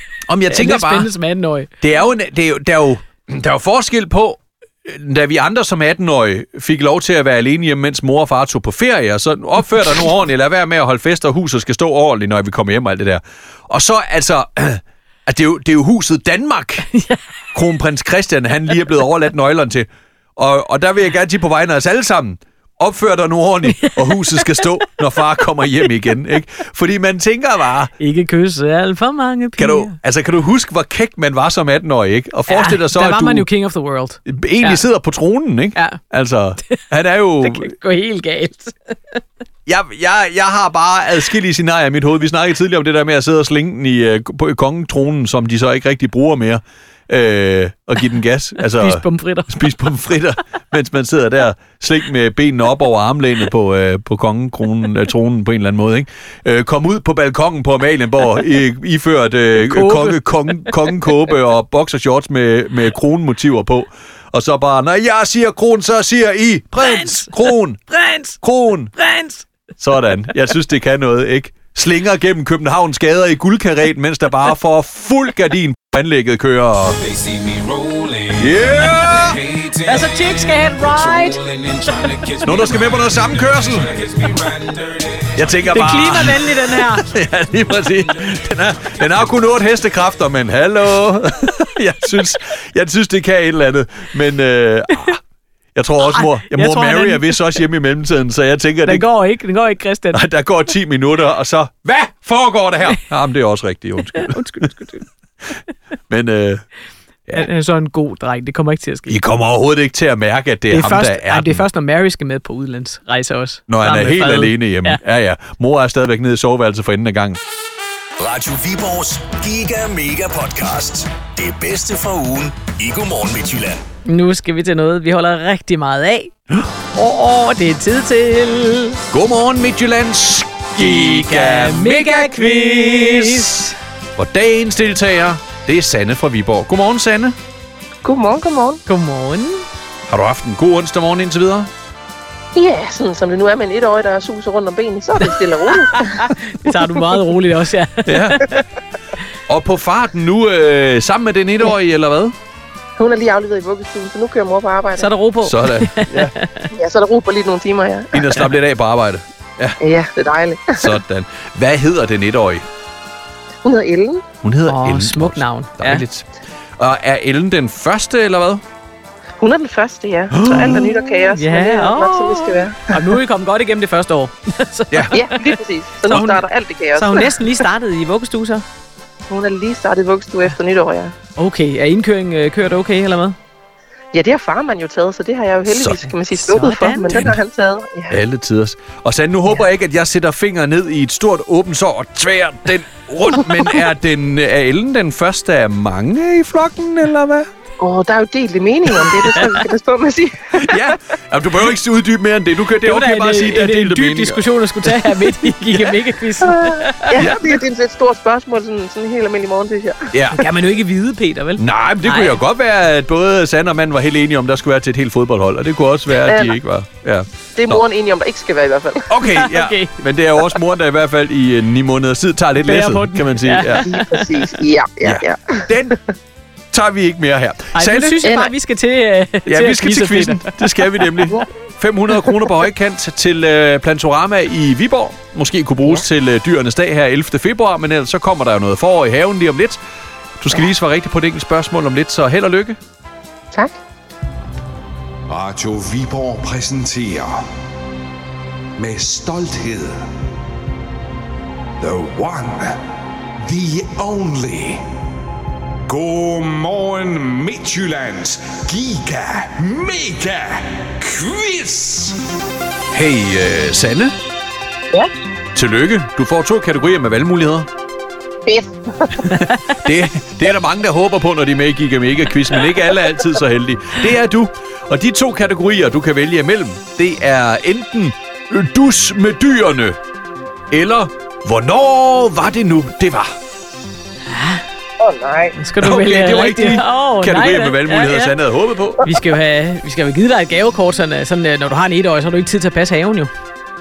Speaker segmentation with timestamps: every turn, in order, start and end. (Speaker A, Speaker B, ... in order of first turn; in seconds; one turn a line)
Speaker A: 0.3-1.1
Speaker B: 0.5-1.7
Speaker A: 1.8-16.9
Speaker B: 16.9-17.2
Speaker A: 17.5-27.9
Speaker B: 23.8-24.6
Speaker B: 28.0-29.9
Speaker A: 29.6-33.5
Speaker B: 32.5-34.8
Speaker A: 34.3-37.7
Speaker B: 37.4-39.2
Speaker A: 39.7-67.9
Speaker B: 48.7-49.7
Speaker B: 59.6-61.1
Speaker B: 66.8-68.4
Speaker A: 68.4-69.0
Speaker B: 69.0-69.5
Speaker A: 69.8-79.9
Speaker B: 79.8-82.1
Speaker A: 82.3-84.5
Speaker A: 85.2-95.2
Speaker B: 85.7-87.1
Speaker A: 95.8-99.1
Speaker B: 96.0-97.4
Speaker B: 98.8-100.2
Speaker A: 100.1-104.7
Speaker B: 104.1-105.0
Speaker A: 106.1-106.7
Speaker B: 107.3-109.2
Speaker A: 109.1-111.7
Speaker B: 110.7-115.0
Speaker A: 113.7-117.4
Speaker C: 118.2-123.8
Speaker B: 124.1-126.3
Speaker B: 126.9-129.0
Speaker A: 129.1-133.7
Speaker B: 130.8-133.7
Speaker A: 134.2-137.3
Speaker D: 138.0-138.8
Speaker B: 138.9-139.7
Speaker A: 140.1-141.7
Speaker D: 142.6-146.3
Speaker B: 145.2-148.6
Speaker A: 148.1-148.5
Speaker A: 149.5-152.3
Speaker D: 153.0-155.1
Speaker B: 155.0-156.7
Speaker A: 155.4-156.3
Speaker D: 156.7-158.4
Speaker A: 158.1-159.8
Speaker D: 159.8-161.0
Speaker A: 160.8-162.7
Speaker D: 163.6-164.2
Speaker A: 164.4-166.3
Speaker B: 164.7-166.0
Speaker A: 166.8-168.6
Speaker D: 169.4-173.0
Speaker A: 170.3-170.9
Speaker B: 170.5-178.6
Speaker A: 174.9-175.2
Speaker D: 175.1-177.6
Speaker D: 179.3-181.1
Speaker B: 181.4-183.4
Speaker D: 184.1-188.2
Speaker A: 185.7-186.0
Speaker B: 186.3-187.3
Speaker A: 188.1-197.5
Speaker D: 197.8-200.8
Speaker B: 199.3-199.6
Speaker A: 200.5-206.0
Speaker B: 202.8-207.2
Speaker D: 206.4-210.1
Speaker A: 207.1-207.6
Speaker A: 210.1-210.5
Speaker B: 210.3-212.4
Speaker A: 211.6-217.8
Speaker D: 216.2-216.6
Speaker D: 217.6-219.1
Speaker A: 219.1-223.9
Speaker B: 219.2-220.0
Speaker B: 222.6-224.6
Speaker D: 223.9-225.9
Speaker A: 225.0-226.0
Speaker A: 226.7-228.2
Speaker B: 227.7-231.1
Speaker D: 228.2-228.5
Speaker A: 229.5-239.8
Speaker A: 240.4-242.8
Speaker E: 245.3-247.4
Speaker E: 248.8-250.0
Speaker E: 251.8-252.8
Speaker E: 253.4-254.8
Speaker E: 255.9-262.2
Speaker A: 262.9-264.1
Speaker A: 265.6-267.7
Speaker D: 268.5-269.1
Speaker B: 269.3-269.8
Speaker A: 269.8-280.0
Speaker A: 280.7-283.3
Speaker B: 284.3-284.6
Speaker D: 285.0-285.6
Speaker B: 285.6-288.4
Speaker A: 285.8-289.2
Speaker B: 289.0-293.3